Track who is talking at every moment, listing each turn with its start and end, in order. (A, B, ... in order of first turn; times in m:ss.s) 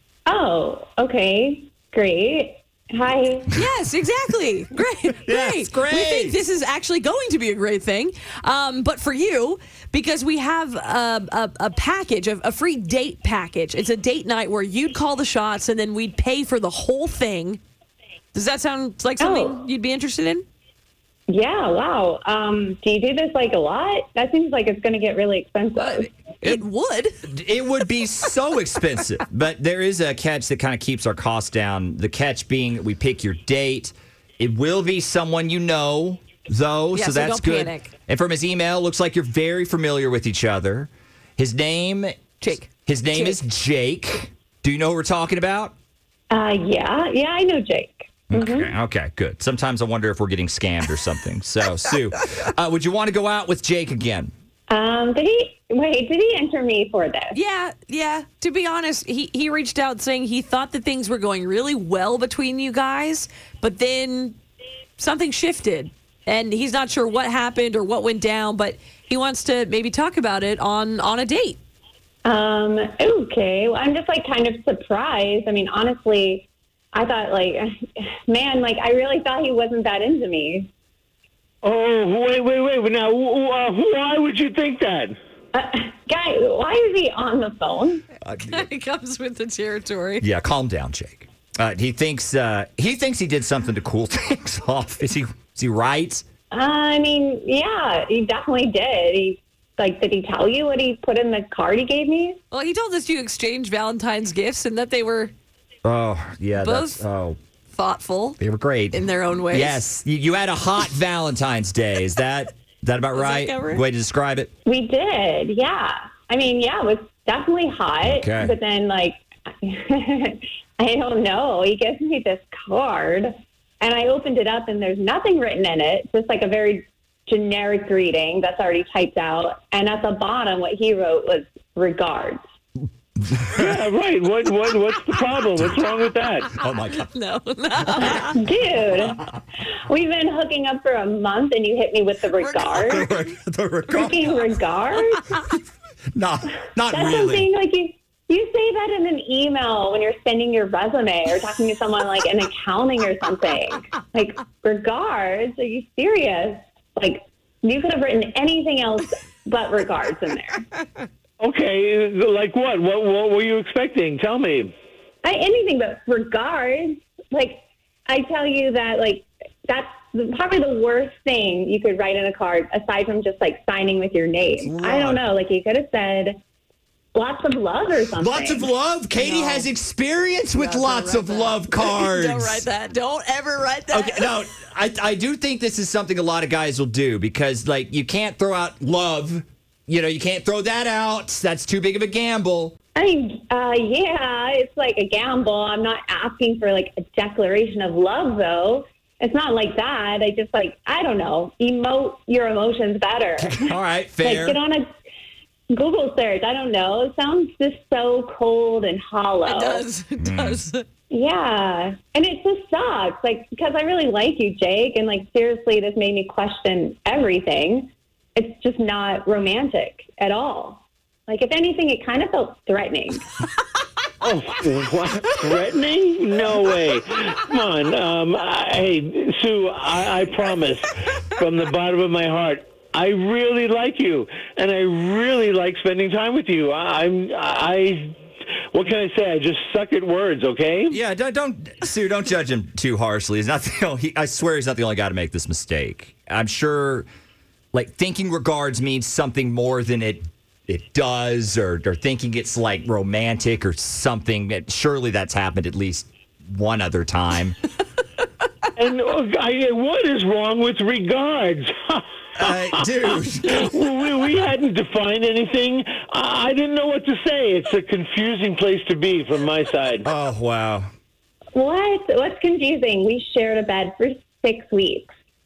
0:00.3-0:03.6 A
0:03.6-0:17.6 B
0:05.3-0:06.4 C
0:18.3-0:20.4 B
0:19.2-0:19.6 A
0:21.3-0:26.1 A
0:25.8-0:27.2 B
0:27.3-0:42.2 C
0:36.9-0:37.9 B
0:42.4-0:43.4 B
0:42.9-0:45.8 C
0:46.3-0:48.7 A
0:48.3-0:54.3 C
0:54.7-0:57.4 A
0:57.3-1:04.4 B
1:05.0-1:11.6 B
1:12.2-1:17.7 A
1:18.3-1:20.7 A
1:21.6-1:25.2 D
1:25.5-1:28.0 A
1:28.2-1:28.6 C
1:28.5-1:30.3 B
1:30.2-1:36.2 C
1:36.5-1:42.4 A
1:42.5-1:45.3 B
1:45.8-1:47.4 C
1:46.6-1:47.0 B
1:47.7-1:48.4 B
1:48.4-1:54.5 C
1:48.9-1:49.9 B
1:53.1-1:53.8 B
1:54.7-2:12.4 A
1:58.0-1:58.5 C
2:13.4-2:16.5 D
2:15.6-2:15.9 C
2:16.5-2:17.1 C
2:16.9-2:18.4 B
2:18.0-2:19.4 A
2:19.9-2:23.1 A
2:22.7-2:24.5 C
2:23.9-2:25.3 A
2:26.2-2:27.5 C
2:26.9-2:40.7 A
2:41.4-2:44.7 D
2:45.2-2:56.4 A
2:54.6-2:55.2 C
2:57.2-2:58.7 A
2:58.2-3:02.7 C
2:59.2-2:59.7 B
3:00.6-3:04.3 B
3:03.9-3:12.7 C
3:13.0-3:24.9 A
3:23.4-3:24.6 C
3:25.7-3:29.9 A
3:29.4-3:30.8 B
3:30.2-3:30.6 C
3:31.1-3:43.2 A
3:44.2-3:58.2 D
3:58.7-4:01.0 D
4:00.9-4:07.1 C
4:07.7-4:17.6 C
4:18.8-4:22.8 D
4:22.4-4:23.7 C
4:23.5-4:30.1 D
4:30.0-4:30.9 C
4:31.5-4:35.1 A